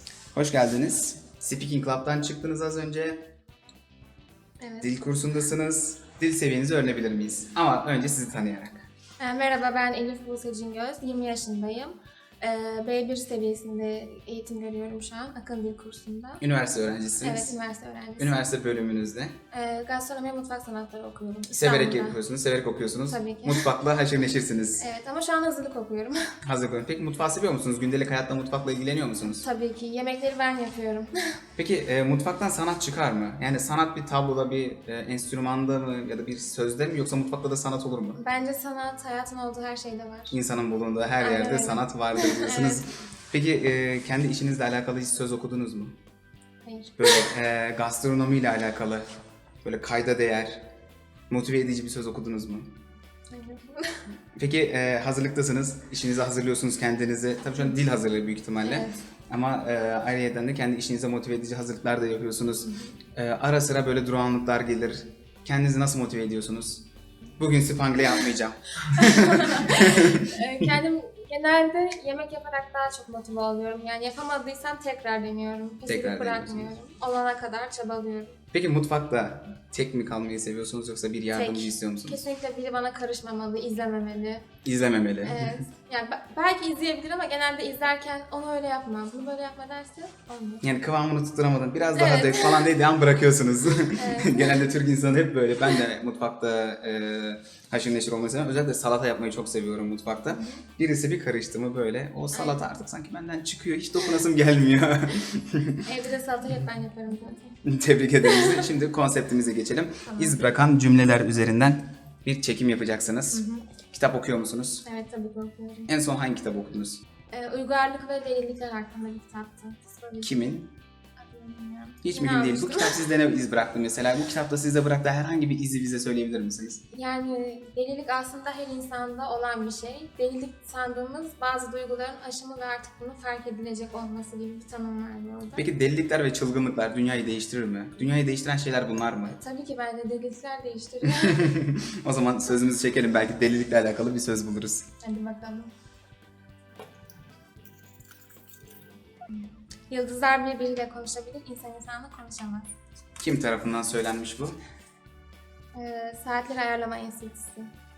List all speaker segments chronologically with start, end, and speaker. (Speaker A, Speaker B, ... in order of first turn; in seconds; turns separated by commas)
Speaker A: 0.3-3.3, Speaker B: 4.6-4.9, Speaker A: 4.8-8.8, Speaker B: 9.2-16.4, Speaker A: 16.4-17.6, Speaker B: 17.2-18.4, Speaker A: 18.2-19.4, Speaker B: 19.5-22.2, Speaker A: 21.5-24.8, Speaker B: 23.1-23.7, Speaker B: 24.8-26.3, Speaker A: 26.4-29.4, Speaker B: 29.3-31.4, Speaker A: 31.6-38.2, Speaker B: 38.2-40.4, Speaker A: 40.3-46.0, Speaker B: 41.2-42.8, Speaker B: 46.6-47.3, Speaker A: 47.0-49.1, Speaker A: 49.6-50.6, Speaker A: 51.3-52.7, Speaker B: 53.3-54.0, Speaker A: 54.4-66.8, Speaker B: 58.6-59.0, Speaker B: 62.6-62.9, Speaker A: 67.4-70.0, Speaker B: 69.4-78.4, Speaker A: 75.9-76.7, Speaker A: 78.5-82.2, Speaker B: 81.3-84.5, Speaker A: 84.7-85.4, Speaker B: 85.2-90.6, Speaker A: 90.6-105.8, Speaker B: 92.0-92.7, Speaker B: 94.0-94.7, Speaker B: 102.3-102.6, Speaker B: 105.8-107.6, Speaker A: 107.7-114.8, Speaker B: 108.2-108.6, Speaker B: 110.1-110.4, Speaker B: 113.3-113.6, Speaker B: 114.8-115.9, Speaker A: 115.9-117.0, Speaker B: 117.3-120.3, Speaker A: 120.2-120.7, Speaker B: 121.2-123.0, Speaker A: 122.0-126.8, Speaker B: 126.9-135.7, Speaker A: 135.6-139.4, Speaker B: 139.4-141.5, Speaker A: 141.2-144.9, Speaker B: 145.0-145.7, Speaker B: 149.3-152.7, Speaker A: 153.2-154.6, Speaker B: 155.7-157.7